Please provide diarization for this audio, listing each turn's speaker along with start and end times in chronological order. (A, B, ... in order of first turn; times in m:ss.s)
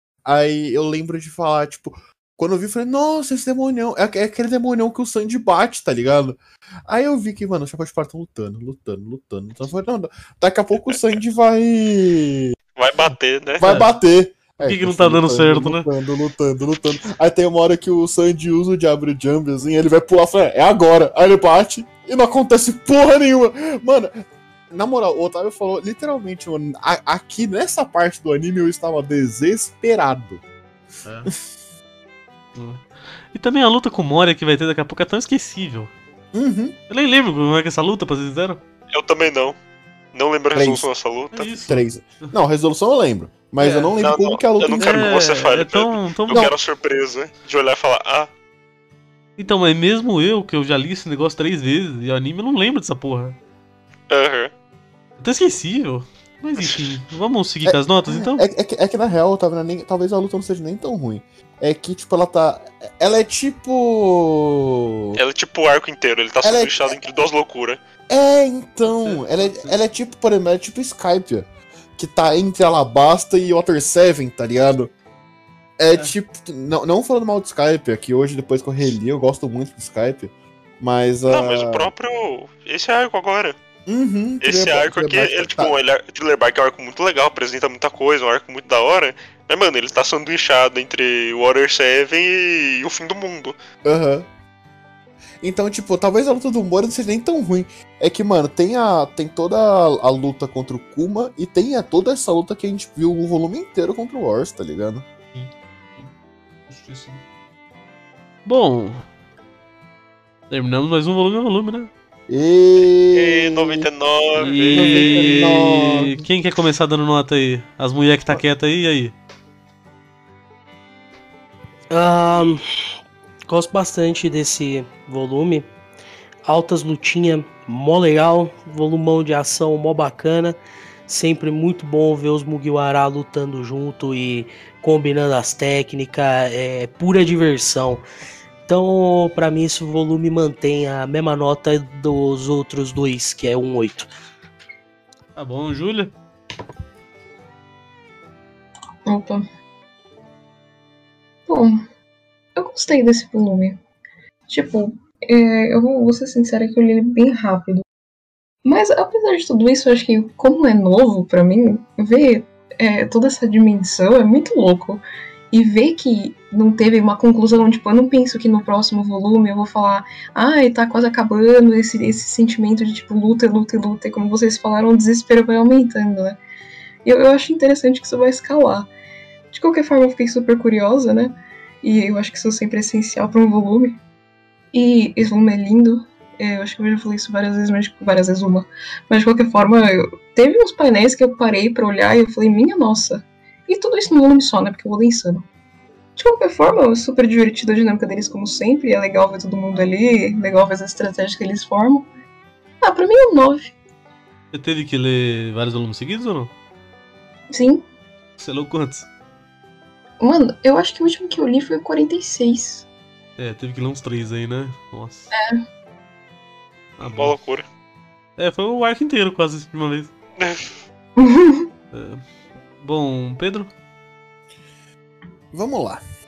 0:00.2-0:12.6 A
0:12.8-0:13.7 B
0:13.6-0:24.2 A
0:13.6-0:14.0 C
0:14.6-0:15.9 C
0:24.7-0:30.4 A
0:31.0-0:31.3 C
0:32.6-0:35.9 C
0:36.3-0:36.8 A
0:36.9-0:38.6 C
0:38.9-0:39.6 B
0:40.1-0:41.5 B
0:40.5-0:40.9 A
0:41.3-0:42.3 C
0:41.5-0:45.1 A
0:43.6-0:44.0 C
0:44.0-0:48.3 B
0:44.8-0:46.5 C
0:49.4-0:53.4 C
0:54.1-0:54.5 B
0:55.2-0:58.4 C
0:57.6-1:05.2 A
1:05.2-1:07.8 B
1:06.4-1:07.0 A
1:08.1-1:14.9 A
1:09.0-1:09.8 C
1:15.8-1:21.9 A
1:21.3-1:23.6 B
1:23.9-1:25.7 A
1:24.4-1:33.6 B
1:33.8-1:34.3 A
1:35.4-1:45.1 A
1:45.3-1:46.1 C
1:46.7-1:47.2 C
1:48.5-1:49.0 C
1:50.5-1:51.9 C
1:52.3-1:53.9 A
1:53.1-1:55.3 B
1:54.4-1:59.2 C
1:54.7-1:56.2 A
2:01.9-2:02.6 D
2:03.5-2:05.7 D
2:06.5-2:18.0 D
2:18.7-2:24.1 D
2:25.4-2:26.1 C
2:29.1-2:29.4 E
2:31.5-2:31.8 E
2:32.6-2:33.8 E
2:34.5-2:37.8 E
2:38.6-2:56.4 E
2:57.0-2:58.9 E
2:59.5-3:04.0 E
3:04.7-3:15.5 E
3:16.2-3:22.1 E
3:22.8-3:23.7 E
3:24.5-3:26.5 C
3:27.5-3:27.8 E
3:28.4-3:29.1 C
3:30.2-3:32.9 E
3:33.4-3:35.3 C
3:35.3-3:35.6 E
3:37.0-3:37.4 C
3:37.0-3:37.7 B
3:38.4-3:40.1 C
3:40.4-3:40.7 B
3:41.2-3:41.7 E
3:41.9-3:42.2 C
3:42.8-3:43.7 C
3:45.5-3:46.0 A